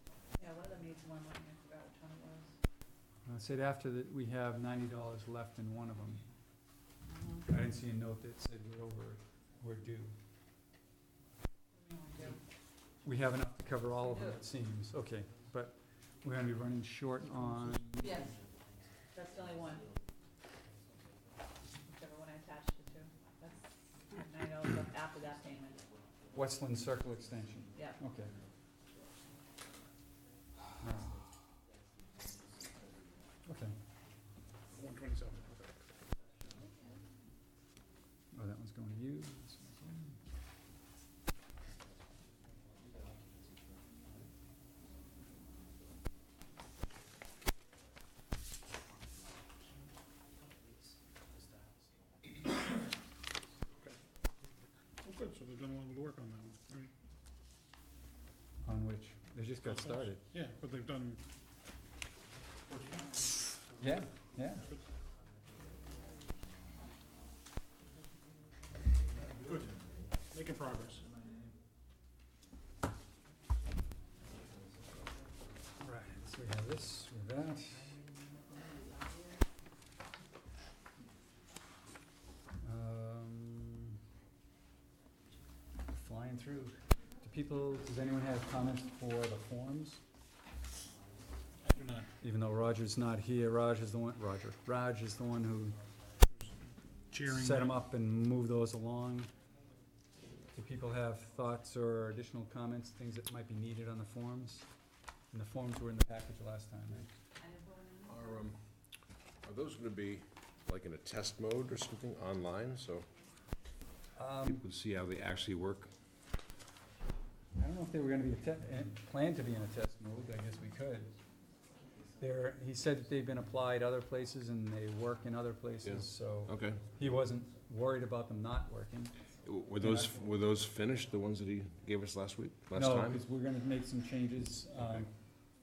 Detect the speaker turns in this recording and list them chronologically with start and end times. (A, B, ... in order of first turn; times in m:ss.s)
0:00.4-0:02.5 A
0:03.2-0:06.2 B
0:07.1-0:07.5 A
0:07.5-0:10.1 B
0:11.7-0:12.4 A
0:13.0-0:18.3 B
0:18.0-0:18.3 A
0:19.1-0:19.9 A
0:21.9-0:25.8 A
0:26.3-0:28.3 B
0:30.8-0:31.1 B
0:33.4-0:33.7 B
0:34.7-0:35.8 C
0:38.3-0:40.2 B
0:55.0-0:56.9 C
0:58.6-1:00.2 B
0:59.7-1:01.2 C
1:03.8-1:04.6 B
1:10.3-1:11.0 C
1:15.8-1:18.0 B
1:22.6-1:23.9 B
1:25.9-1:30.0 B
1:31.6-1:32.1 C
1:32.2-1:35.8 B
1:37.1-1:37.7 C
1:37.3-1:39.3 B
1:40.5-1:44.7 B
1:45.3-1:47.1 B
1:47.4-1:48.5 A
1:48.1-1:48.6 D
1:49.4-1:53.1 D
1:54.2-1:54.6 B
1:54.5-1:55.9 D
1:57.6-2:01.1 B
2:02.2-2:09.1 B
2:05.8-2:06.8 D
2:09.4-2:13.2 D
2:09.8-2:10.1 B
2:12.7-2:15.1 B
2:14.8-2:15.0 D